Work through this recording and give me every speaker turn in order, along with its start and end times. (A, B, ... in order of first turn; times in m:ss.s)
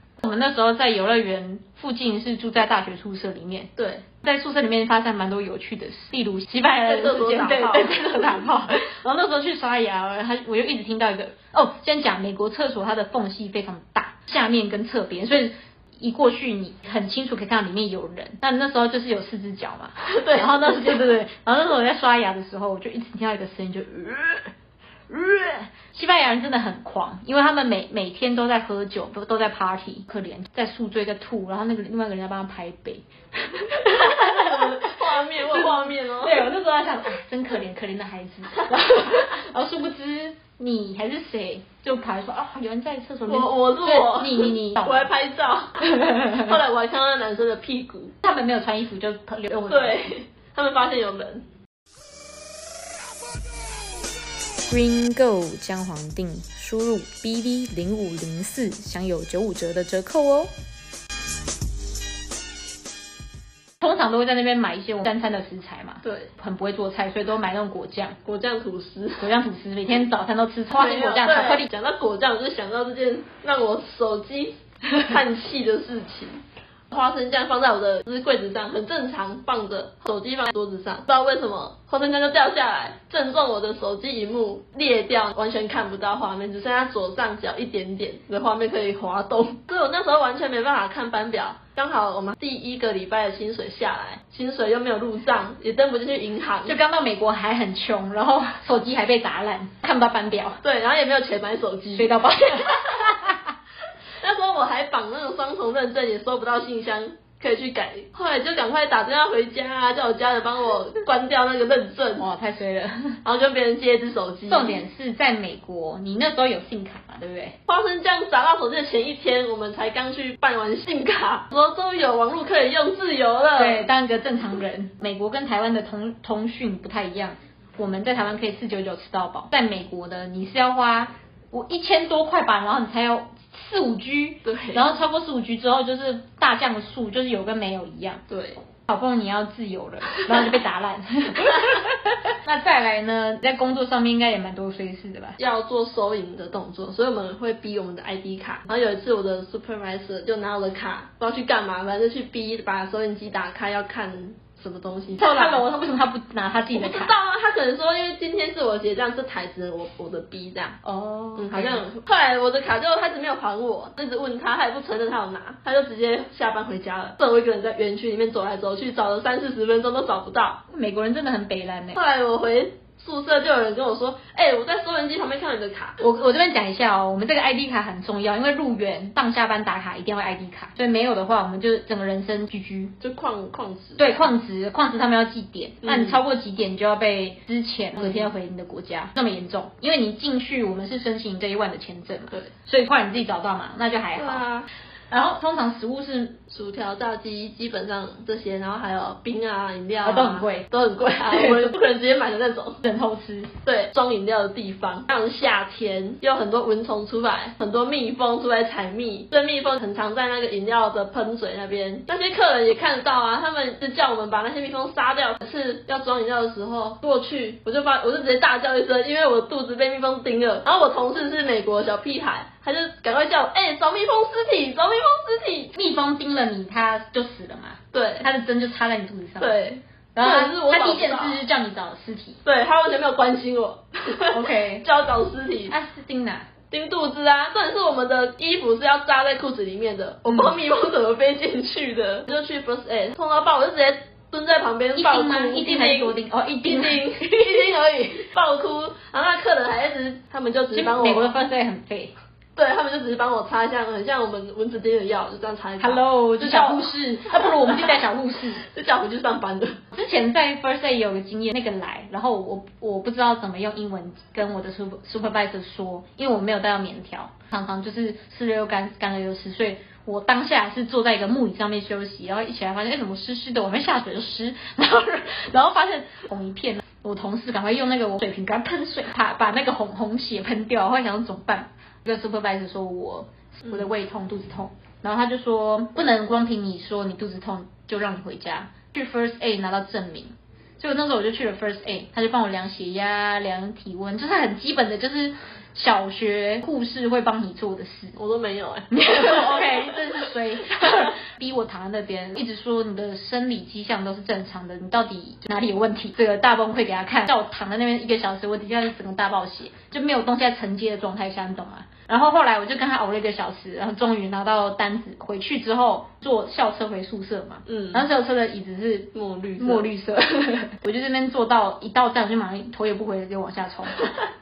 0:00.2-0:03.7 A
0:03.8-0:04.0 B
0:04.2-0:24.5 A
0:06.8-0:08.0 B
0:20.0-0:21.1 B
0:25.1-0:45.1 A
0:33.9-0:36.5 B
0:43.3-0:48.1 B
0:45.8-0:46.6 A
0:48.2-0:50.0 A
0:49.7-0:51.4 B
0:54.7-1:00.5 A
1:03.8-1:08.2 A
1:06.0-1:06.3 B
1:08.2-1:09.3 B
1:09.2-1:11.7 A
1:10.7-1:36.8 B
1:36.6-1:40.6 A
1:40.6-1:42.2 B
1:41.9-1:43.4 A
1:44.2-1:52.3 B
1:52.2-1:53.2 A
1:53.2-1:54.8 B
1:54.5-1:57.6 A
1:57.7-2:03.9 B
2:03.5-2:18.2 A
2:14.4-2:14.9 B
2:18.3-2:18.6 B
2:18.9-2:25.4 A
2:25.4-2:35.7 B
2:35.2-2:37.1 A
2:36.7-2:40.8 B
2:40.8-2:41.8 A
2:41.4-2:50.6 B
2:50.7-2:52.0 A
2:51.9-2:56.0 B
2:56.0-3:02.9 A
3:03.0-3:04.3 B
3:04.0-3:14.4 A
3:05.8-3:06.2 B
3:08.0-3:08.2 B
3:14.2-3:14.7 B
3:15.1-3:16.4 A
3:16.5-3:22.8 B
3:20.0-3:20.6 A
3:21.3-3:21.7 A
3:22.8-3:23.5 A
3:23.6-3:45.7 B
3:45.7-3:49.6 A
3:47.9-3:48.3 B
3:49.4-3:51.4 B
3:50.1-3:52.4 A
3:52.4-3:55.7 B
3:54.3-3:54.8 A
3:55.7-3:56.5 A
3:56.7-4:11.4 B
4:04.9-4:07.6 A
4:10.7-4:12.1 A
4:12.6-4:18.0 B
4:15.8-4:18.6 A
4:18.6-4:19.8 B
4:19.9-4:58.2 A
4:58.2-4:59.4 B
4:58.9-5:24.1 A
5:17.7-5:18.0 B
5:19.1-5:19.9 B